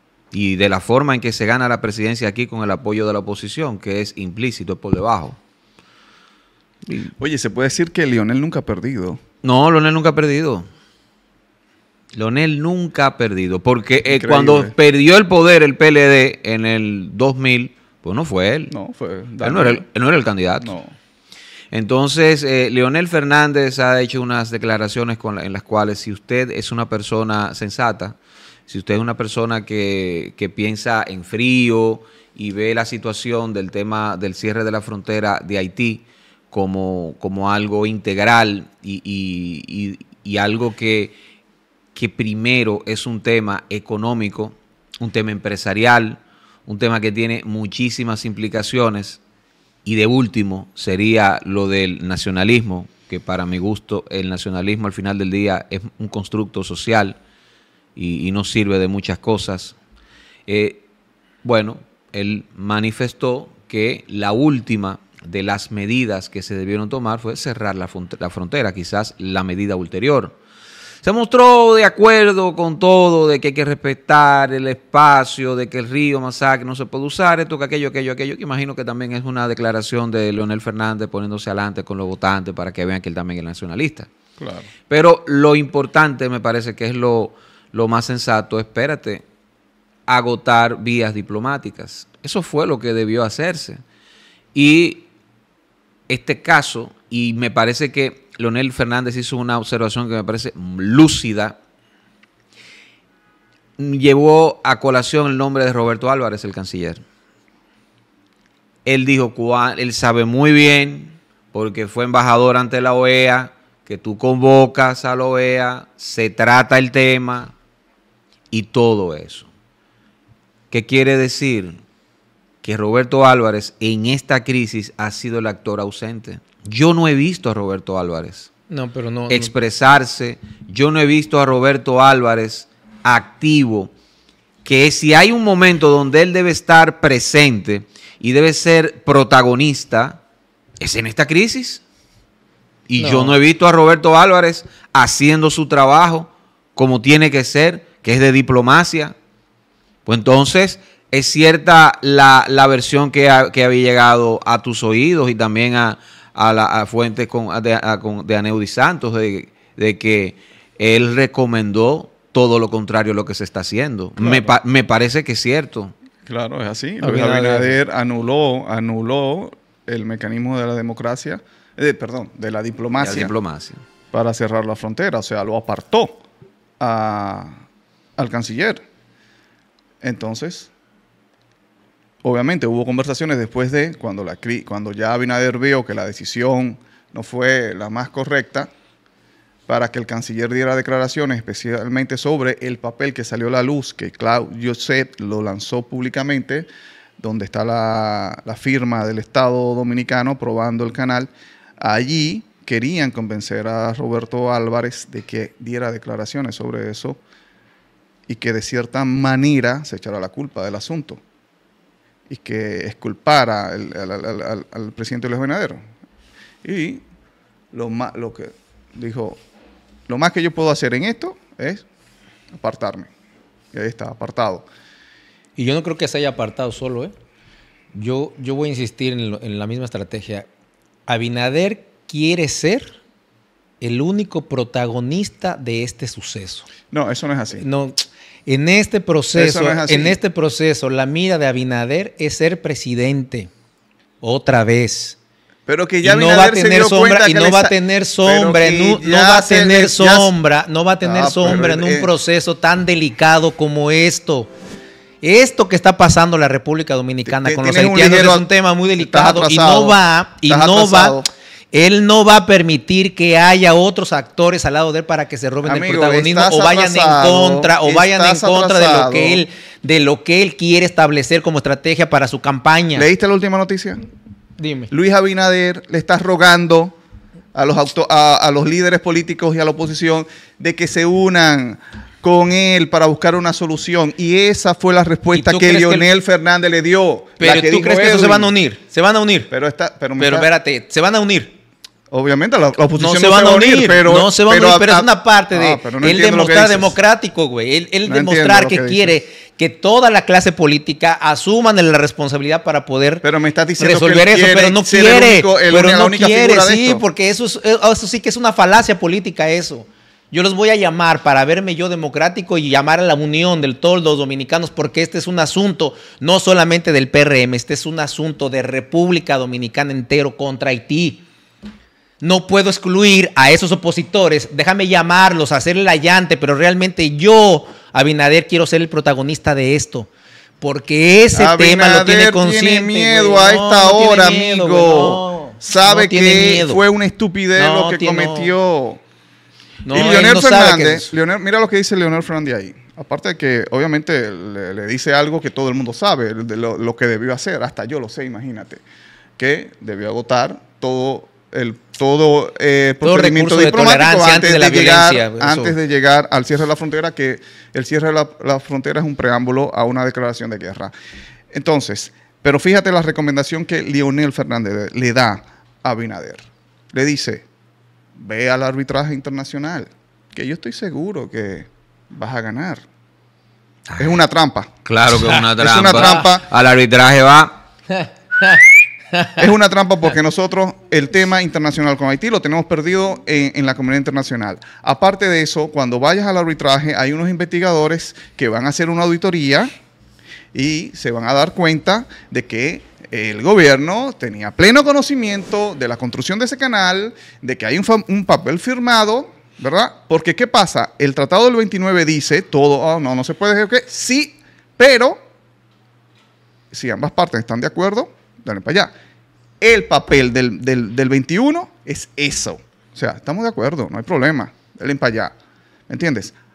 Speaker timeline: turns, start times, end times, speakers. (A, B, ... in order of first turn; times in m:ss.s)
0:00.3-0:05.4 A
0:07.2-0:09.2 B
0:09.4-0:10.7 A
0:12.1-0:18.7 A
0:14.1-0:14.7 B
0:18.7-0:19.8 B
0:19.4-0:20.7 A
0:20.6-0:20.9 B
0:21.7-0:41.2 A
0:42.0-0:49.2 A
0:49.8-0:57.2 A
0:58.0-0:59.8 A
1:00.5-1:00.9 A
1:01.4-1:10.4 A
1:11.0-1:24.1 A
1:24.4-1:24.7 B
1:24.9-1:29.2 A
1:30.1-1:33.8 A
1:34.5-1:35.1 A
1:36.1-1:41.6 A
1:43.8-1:47.0 A
1:48.8-1:57.5 A
1:58.5-1:59.5 A
2:00.7-2:01.8 A
2:02.6-2:08.5 A
2:08.7-2:09.5 C
2:09.3-2:13.9 A
2:14.6-2:20.2 A
2:20.8-2:21.8 A
2:22.9-2:29.2 A
2:23.0-2:23.4 C
2:30.1-2:45.9 A
2:44.2-2:44.5 B
2:46.3-2:53.3 B
2:47.0-2:47.8 C
2:53.0-2:53.8 A
2:54.1-2:56.2 B
2:56.8-2:57.6 B
2:58.2-2:58.8 B
3:00.0-3:00.7 B
3:02.2-3:08.7 B
3:09.7-3:16.7 B
3:17.2-3:27.2 B
3:28.3-3:31.2 B
3:32.3-3:35.8 B
3:36.6-3:37.0 B
3:37.7-3:39.4 B
3:40.1-3:41.8 B
3:42.6-3:43.1 B
3:43.7-3:44.7 B
3:45.6-3:47.1 C
3:47.9-3:50.5 C
3:51.1-3:53.0 C
3:53.8-3:56.7 C
3:56.9-3:57.6 B
3:57.6-3:58.0 C
3:58.5-4:03.5 C
3:59.4-4:00.2 B
4:04.2-4:05.2 C
4:05.7-4:10.3 B
4:06.0-4:14.5 C
4:11.0-4:12.1 B
4:15.2-4:21.2 C
4:17.3-4:21.3 B
4:21.7-4:33.1 C
4:25.6-4:29.4 B
4:33.0-4:34.0 B
4:34.6-4:34.9 C
4:34.9-4:37.0 B
4:37.6-4:48.5 B
4:45.3-4:46.1 C
4:47.4-4:49.5 C
4:49.5-4:50.5 B
4:50.2-4:51.5 C
4:52.1-4:57.0 B
4:53.0-5:03.2 C
4:58.1-4:59.2 B
5:03.2-5:07.0 B
5:03.8-5:21.2 C
5:22.2-5:30.1 C
5:30.6-5:36.8 C
5:31.4-5:39.0 B
5:37.6-5:38.5 C
5:39.8-5:41.1 C
5:39.9-5:48.8 B
5:49.4-6:00.9 B
5:53.0-5:55.8 C
6:01.5-6:07.4 B
6:08.2-6:12.8 B
6:13.9-6:14.2 A
6:14.0-6:14.7 B
6:14.8-6:17.6 A
6:15.5-6:16.5 B
6:19.4-6:29.7 B
6:30.5-6:45.2 B
6:46.7-6:48.9 B
6:49.6-6:55.3 B
6:55.9-6:56.3 B